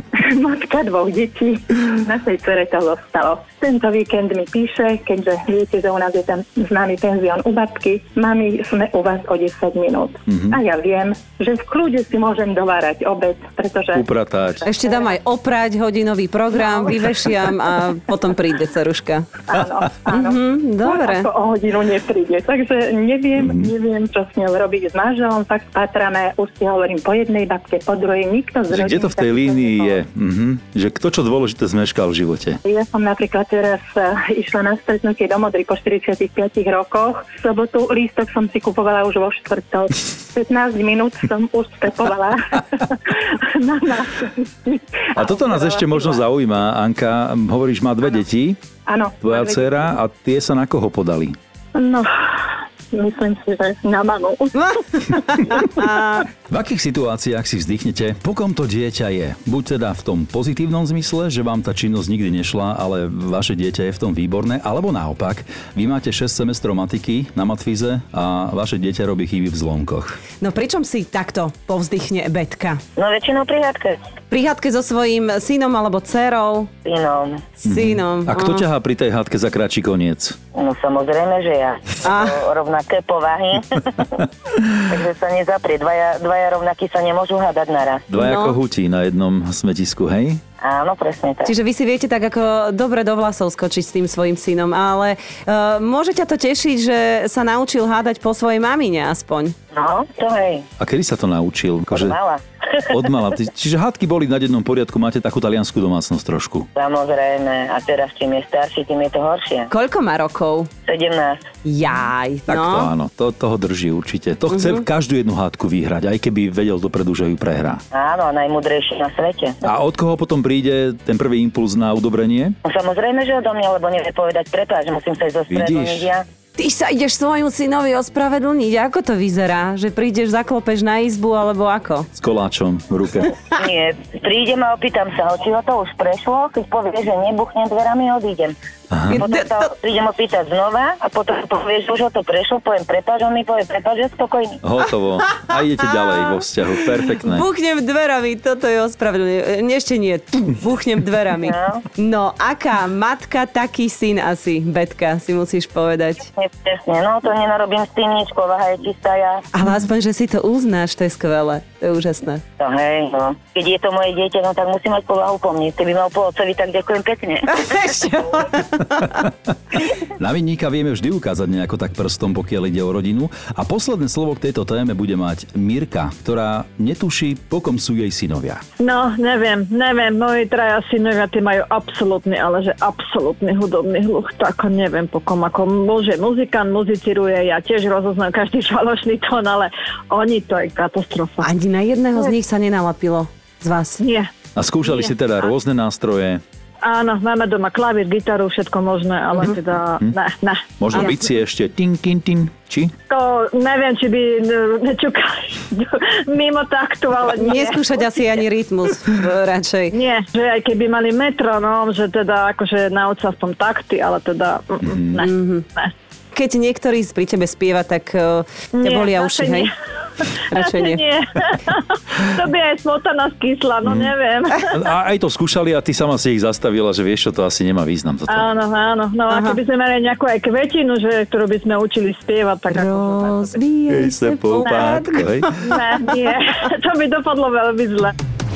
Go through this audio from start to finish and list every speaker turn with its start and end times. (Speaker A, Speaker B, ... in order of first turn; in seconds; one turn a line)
Speaker A: 0.2-14.9
Speaker B: 13.9-14.7
Speaker C: 14.7-19.3
Speaker A: 19.5-30.0
Speaker C: 20.1-21.3
Speaker B: 28.7-32.6
Speaker A: 32.6-46.2
Speaker B: 45.1-48.6
Speaker A: 48.9-49.6
Speaker B: 49.2-51.4
Speaker A: 51.8-55.6
Speaker C: 55.3-56.3
Speaker B: 56.5-70.2
Speaker C: 70.4-72.8
Speaker D: 73.0-74.0
Speaker C: 74.3-76.7
Speaker D: 76.8-77.5
Speaker C: 77.6-78.7
Speaker B: 77.7-80.4
Speaker D: 80.5-84.2
Speaker C: 82.0-82.4
Speaker D: 84.9-88.0
Speaker B: 88.1-90.4
Speaker C: 88.2-88.6
Speaker D: 90.6-91.5
Speaker C: 91.5-99.5
Speaker D: 99.7-100.7
Speaker B: 100.8-102.2
Speaker D: 101.9-102.4
Speaker B: 102.9-106.7
Speaker D: 106.8-109.7
Speaker C: 109.7-110.7
Speaker D: 110.9-111.4
Speaker C: 111.6-112.9
Speaker B: 112.5-117.8
Speaker D: 117.9-119.6
Speaker B: 119.6-122.6
Speaker D: 122.7-126.3
Speaker B: 125.5-126.1
Speaker C: 126.6-132.1
Speaker B: 132.2-133.3
Speaker D: 133.6-138.6
Speaker B: 138.9-139.2
Speaker C: 139.1-139.7
Speaker D: 139.2-144.6
Speaker B: 144.6-147.5
Speaker C: 147.2-156.3
Speaker D: 151.4-151.8
Speaker D: 156.4-159.4
Speaker C: 159.5-162.4
Speaker D: 162.6-167.6
Speaker C: 167.5-169.1
Speaker B: 170.2-178.6
Speaker E: 178.8-191.5
Speaker C: 191.4-194.0
Speaker E: 194.0-194.3
Speaker B: 194.6-196.4
Speaker E: 196.8-200.6
Speaker B: 200.8-202.9
Speaker E: 203.1-208.0
Speaker C: 207.3-210.0
Speaker E: 209.9-215.9
Speaker B: 214.8-215.2
Speaker C: 215.2-215.6
Speaker C: 216.3-219.7
Speaker E: 218.7-224.8
Speaker C: 220.5-221.1
Speaker B: 223.8-224.1
Speaker B: 224.7-228.5
Speaker E: 228.3-233.6
Speaker C: 229.3-229.6
Speaker C: 232.7-235.3
Speaker B: 233.9-235.6
Speaker E: 235.6-238.1